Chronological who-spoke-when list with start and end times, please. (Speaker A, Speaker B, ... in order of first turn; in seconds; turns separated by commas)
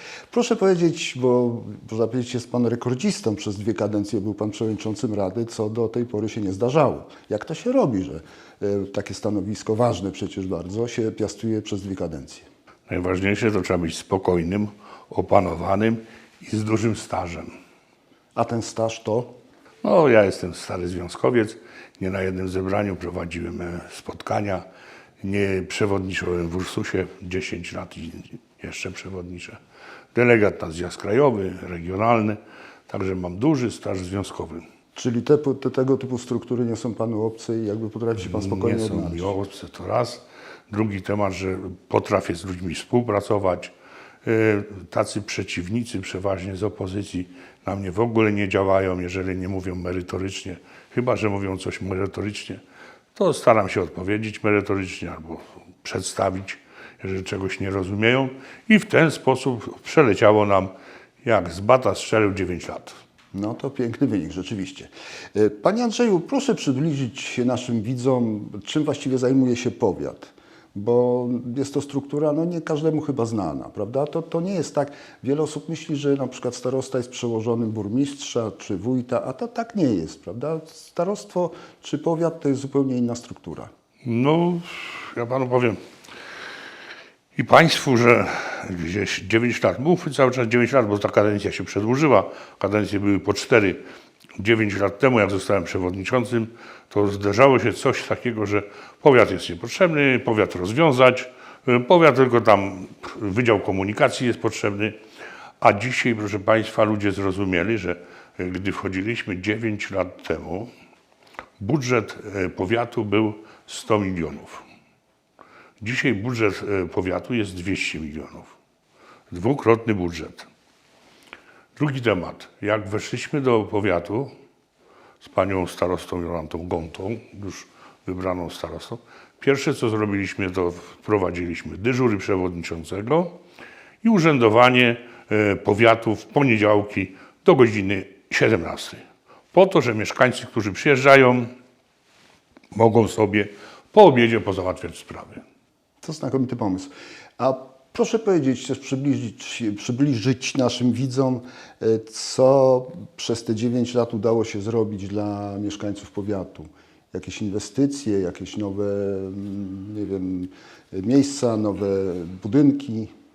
Speaker A: 0.3-12.5, Speaker B: 12.9-17.5, Speaker A: 18.3-19.4, Speaker B: 19.8-24.6, Speaker B: 25.2-29.6, Speaker B: 30.1-34.6, Speaker A: 34.9-39.3, Speaker B: 38.2-43.7, Speaker B: 44.2-52.6, Speaker B: 53.1-60.7, Speaker B: 61.2-63.0, Speaker A: 63.3-83.7, Speaker B: 84.0-85.8, Speaker B: 87.3-93.8, Speaker B: 94.4-105.0, Speaker B: 105.6-110.7, Speaker B: 111.6-114.6, Speaker B: 115.8-118.5, Speaker B: 119.3-120.5, Speaker B: 121.8-124.3, Speaker B: 125.2-133.4, Speaker B: 134.0-141.5, Speaker B: 142.7-145.4, Speaker A: 146.0-163.1